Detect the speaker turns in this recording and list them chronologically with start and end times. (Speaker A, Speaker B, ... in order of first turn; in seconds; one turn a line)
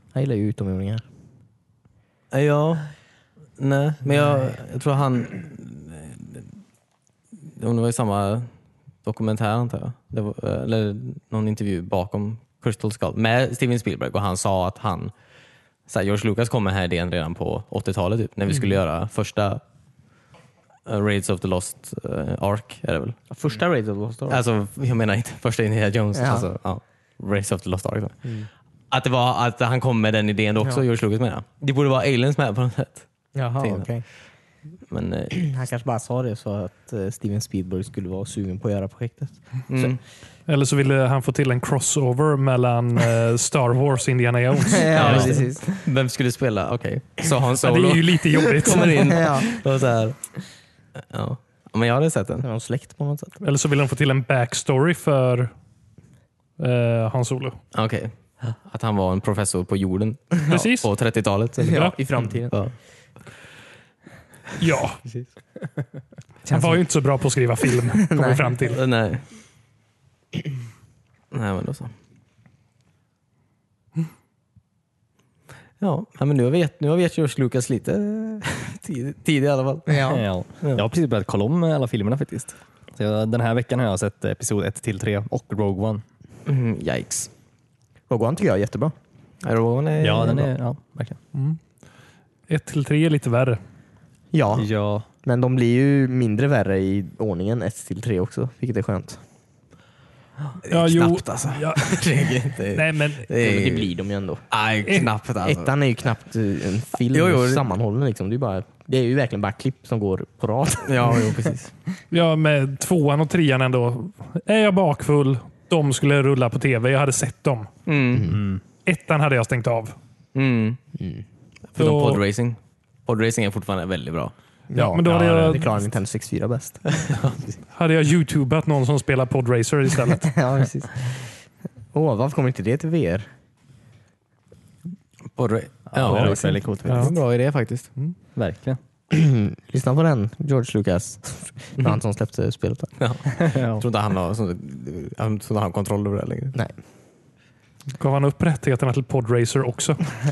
Speaker A: 0.1-1.0
Speaker B: 2.3-2.9
Speaker B: 3.6-6.4
Speaker B: 7.6-8.5
Speaker B: 9.0-15.1
Speaker B: 15.9-19.6
Speaker B: 20.9-23.2
Speaker A: 23.3-24.4
Speaker B: 24.3-28.3
Speaker A: 26.1-26.5
Speaker B: 28.9-33.1
Speaker A: 33.4-34.0
Speaker B: 33.6-33.9
Speaker B: 34.9-35.5
Speaker A: 35.4-39.9
Speaker B: 39.7-40.0
Speaker C: 40.5-45.4
Speaker A: 44.6-45.8
Speaker B: 44.9-50.4
Speaker C: 47.6-49.4
Speaker A: 48.6-49.6
Speaker B: 51.0-52.4
Speaker A: 52.4-53.4
Speaker C: 53.4-55.5
Speaker C: 56.6-57.6
Speaker B: 57.7-62.7
Speaker C: 60.5-60.9
Speaker A: 61.6-62.5
Speaker C: 61.6-61.9
Speaker C: 64.6-65.0
Speaker A: 66.5-66.8
Speaker C: 66.5-68.8
Speaker A: 67.9-68.6
Speaker B: 68.7-69.2
Speaker B: 71.3-71.9
Speaker B: 75.8-80.0
Speaker A: 79.9-80.2
Speaker D: 80.1-86.0
Speaker B: 86.5-87.3
Speaker A: 88.1-88.9
Speaker B: 89.4-90.5
Speaker D: 90.0-91.2
Speaker C: 91.3-91.6
Speaker C: 92.5-93.6
Speaker A: 94.3-94.7
Speaker D: 94.5-95.1
Speaker A: 95.2-99.2
Speaker B: 100.6-103.9
Speaker C: 100.7-102.0
Speaker C: 102.7-103.3
Speaker A: 103.4-104.4
Speaker B: 104.5-105.7
Speaker A: 105.4-111.3
Speaker B: 107.1-107.7
Speaker B: 110.8-111.7
Speaker C: 112.1-117.7
Speaker B: 117.9-118.3
Speaker A: 118.1-118.4
Speaker D: 118.3-118.6
Speaker C: 118.8-119.9
Speaker B: 120.3-120.8
Speaker A: 121.0-121.2
Speaker B: 121.7-124.3
Speaker C: 121.8-122.2
Speaker A: 124.7-126.9
Speaker C: 124.7-125.7
Speaker D: 125.1-125.5
Speaker B: 126.9-127.6
Speaker C: 127.7-130.3
Speaker A: 130.2-131.3
Speaker A: 131.9-133.3
Speaker B: 135.4-137.9
Speaker D: 135.9-137.1
Speaker C: 136.1-137.1
Speaker D: 138.4-138.8
Speaker A: 139.1-142.9
Speaker B: 143.0-146.6
Speaker D: 143.4-143.8
Speaker C: 148.0-150.2